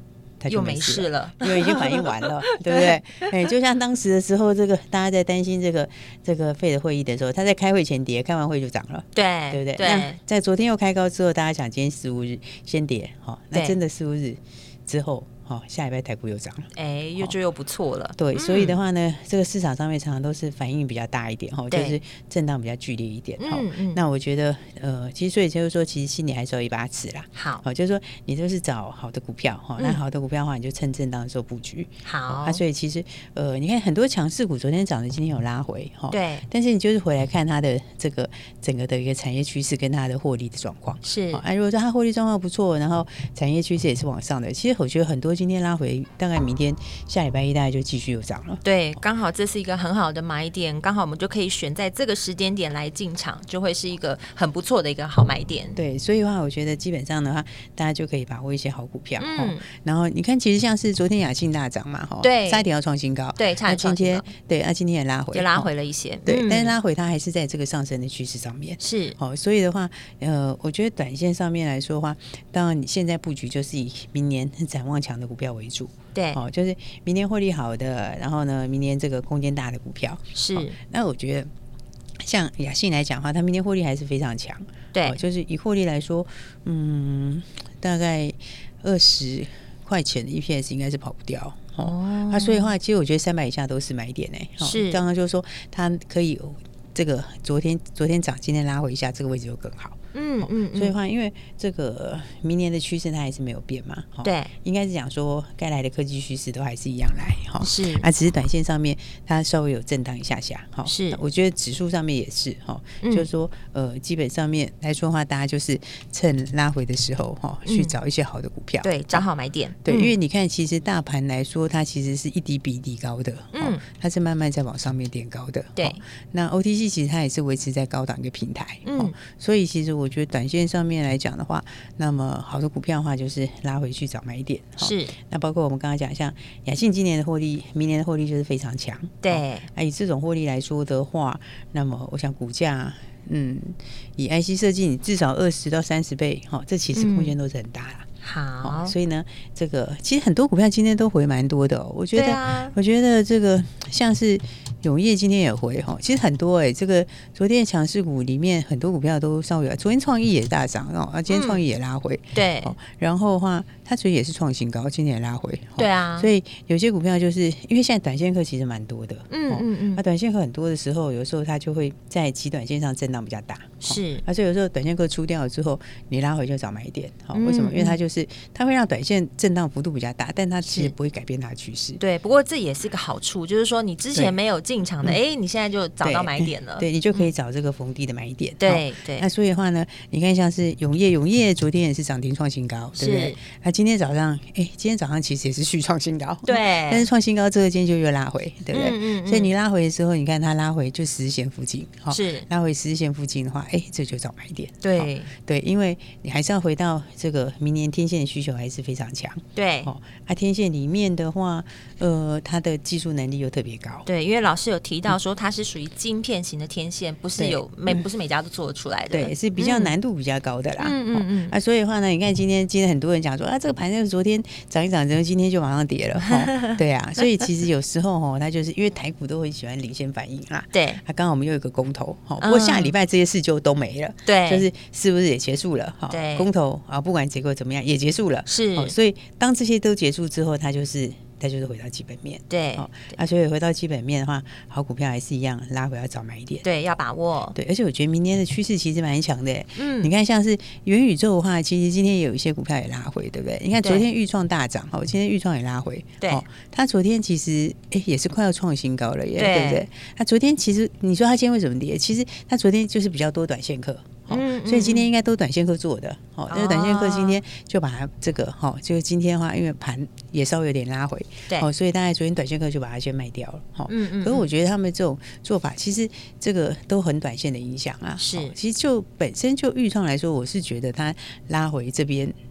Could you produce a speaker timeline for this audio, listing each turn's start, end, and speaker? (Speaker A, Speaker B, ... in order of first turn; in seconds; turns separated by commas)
Speaker A: 0.4-17.3, Speaker B: 0.5-3.3, Speaker B: 9.2-10.2, Speaker B: 16.8-18.8, Speaker A: 18.2-48.6, Speaker B: 21.7-22.0, Speaker B: 23.4-24.0, Speaker B: 27.4-27.6, Speaker B: 32.1-32.6, Speaker B: 36.1-36.5, Speaker B: 41.0-41.4, Speaker B: 48.6-55.8, Speaker A: 55.8-65.7, Speaker B: 59.2-59.6, Speaker B: 62.2-62.7, Speaker B: 63.4-64.3, Speaker B: 65.3-66.8, Speaker A: 66.3-81.5, Speaker B: 68.8-69.2, Speaker B: 80.3-80.8, Speaker A: 82.2-119.2, Speaker B: 84.9-85.2, Speaker B: 91.8-92.7, Speaker B: 94.6-95.0, Speaker B: 100.1-101.0, Speaker B: 104.2-104.5, Speaker B: 107.6-108.1, Speaker B: 110.9-111.2, Speaker B: 113.0-113.3, Speaker B: 117.7-117.9, Speaker B: 118.8-120.2, Speaker A: 119.8-148.1, Speaker B: 123.5-123.8, Speaker B: 125.8-126.0, Speaker B: 128.9-129.1, Speaker B: 134.8-135.1, Speaker B: 139.2-139.7, Speaker B: 146.9-147.3, Speaker B: 148.2-148.9, Speaker A: 148.6-182.0, Speaker B: 152.1-152.7, Speaker B: 161.3-161.6, Speaker B: 162.3-162.8, Speaker B: 165.8-166.3, Speaker B: 169.3-170.0, Speaker B: 173.8-174.2, Speaker B: 177.3-178.0, Speaker B: 180.6-180.9, Speaker B: 182.0-187.3, Speaker A: 186.0-214.1, Speaker B: 188.6-189.3, Speaker B: 193.0-193.4, Speaker B: 196.5-197.1, Speaker B: 198.7-199.5, Speaker B: 202.1-202.5, Speaker B: 204.8-205.3, Speaker B: 209.6-209.9, Speaker B: 214.1-219.9, Speaker A: 217.4-218.0, Speaker A: 219.1-246.7, Speaker B: 220.8-221.6, Speaker B: 226.3-226.8, Speaker B: 230.7-231.0, Speaker B: 232.4-232.9, Speaker B: 234.3-234.7, Speaker B: 236.1-236.5, Speaker B: 238.5-238.9, Speaker B: 242.5-243.2, Speaker B: 246.6-247.6, Speaker A: 247.6-282.4, Speaker B: 249.8-250.1, Speaker B: 259.4-259.9, Speaker B: 264.3-265.1, Speaker B: 266.5-267.4, Speaker B: 273.9-274.5, Speaker B: 278.2-278.5